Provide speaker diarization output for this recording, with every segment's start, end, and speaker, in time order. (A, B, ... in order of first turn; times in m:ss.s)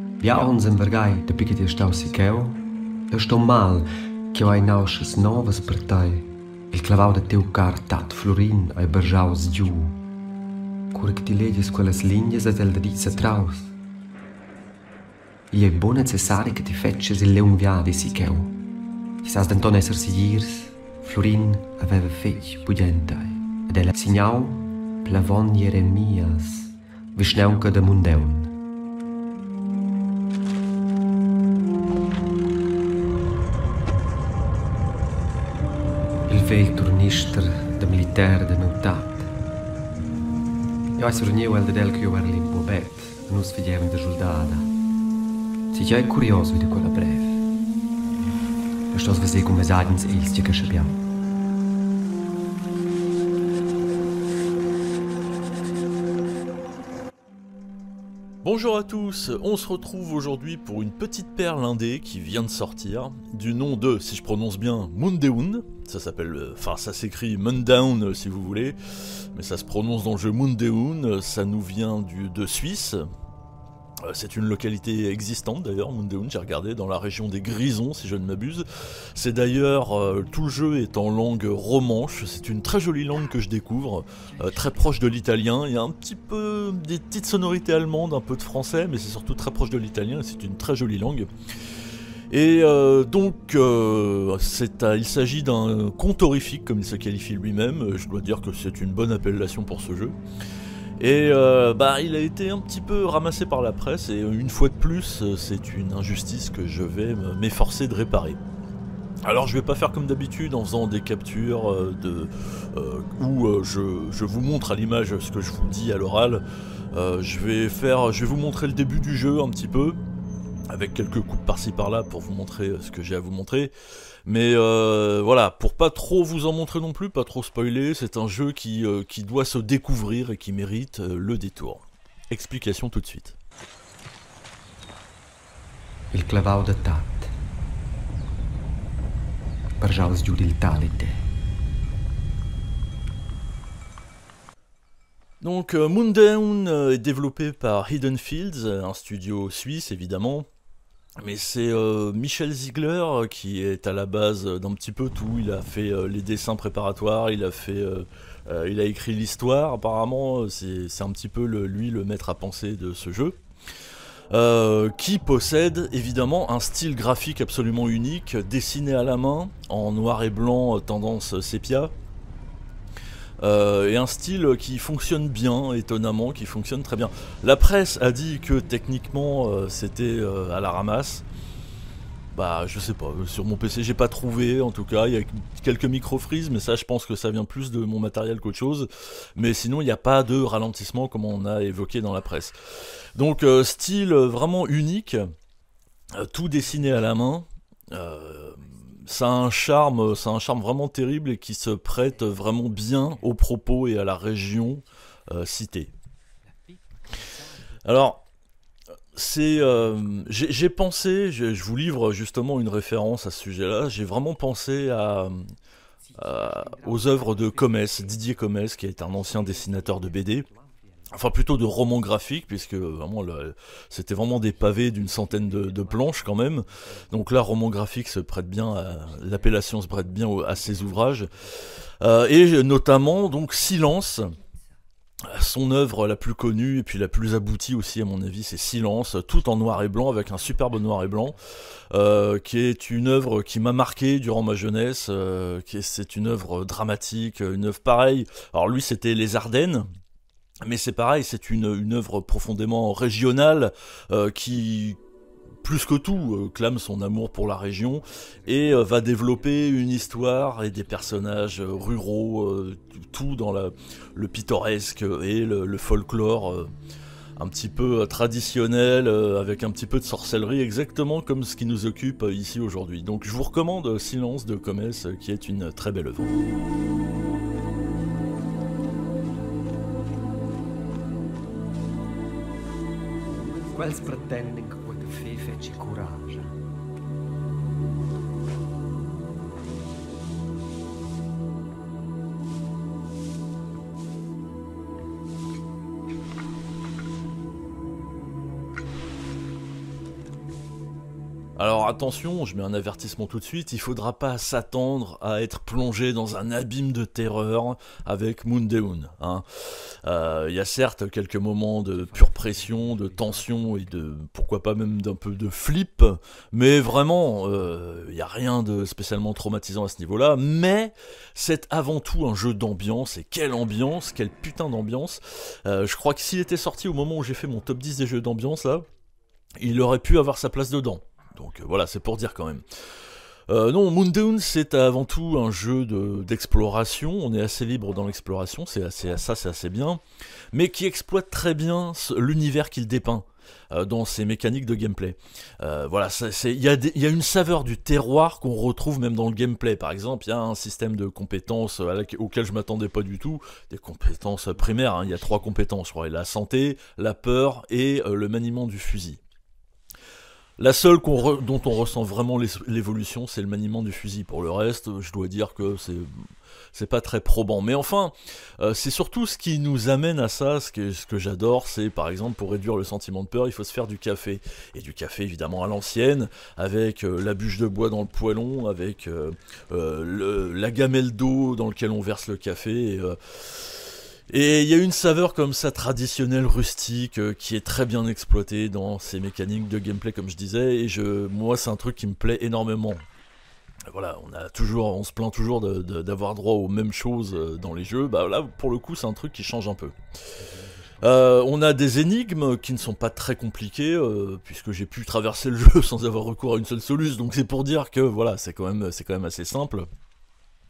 0:00.2-0:10.0 A
0:10.9-0:13.7 A
0:15.5-0:18.6 A
0:19.2-0:28.5 A
0:36.3-0:39.3 A
0:41.0-0:44.7 A
0:45.7-0:47.4 A
0:48.9-0:51.0 A
0:58.4-1:08.8 B
1:09.3-1:13.0 B
1:14.0-1:31.3 B
1:24.4-1:24.8 A
1:32.3-1:40.2 B
1:41.0-1:48.4 B
1:49.2-2:00.0 B
2:00.7-2:03.7 B
2:04.2-2:13.4 B
2:16.1-2:17.3 A
2:19.8-2:21.2 A
2:25.4-2:30.5 B
2:31.2-2:43.4 B
2:44.3-2:51.9 B
2:53.4-3:01.2 B
3:02.3-3:12.6 B
3:13.2-3:15.2 B
3:16.1-3:25.9 B
3:16.7-3:17.0 A
3:18.7-3:20.6 A
3:22.0-3:23.3 A
3:26.4-3:27.8 A
3:27.8-3:28.2 B
3:29.2-3:35.4 B
3:29.6-3:30.2 A
3:36.0-3:38.4 A
3:36.2-3:40.4 B
3:38.9-3:41.5 A
3:41.1-3:51.3 B
3:44.3-3:47.5 A
3:48.7-3:51.8 A
3:52.0-3:54.3 B
3:52.8-3:54.6 A
3:55.3-4:01.4 B
4:00.1-4:01.4 A
4:01.9-4:09.9 B
4:10.6-4:15.0 B
4:15.6-4:26.7 B
4:17.7-4:22.1 A
4:27.4-4:36.4 B
4:43.7-4:46.5 A
5:01.6-5:28.9 B
5:11.9-5:14.0 A
5:29.6-5:32.6 B
5:33.5-5:40.0 B
5:40.5-5:59.2 B
5:54.6-5:55.5 A
6:00.6-6:06.1 B
6:01.2-6:02.0 A
6:06.7-6:33.0 B
6:33.9-6:39.9 B
6:40.3-6:41.5 A
6:41.0-6:49.9 B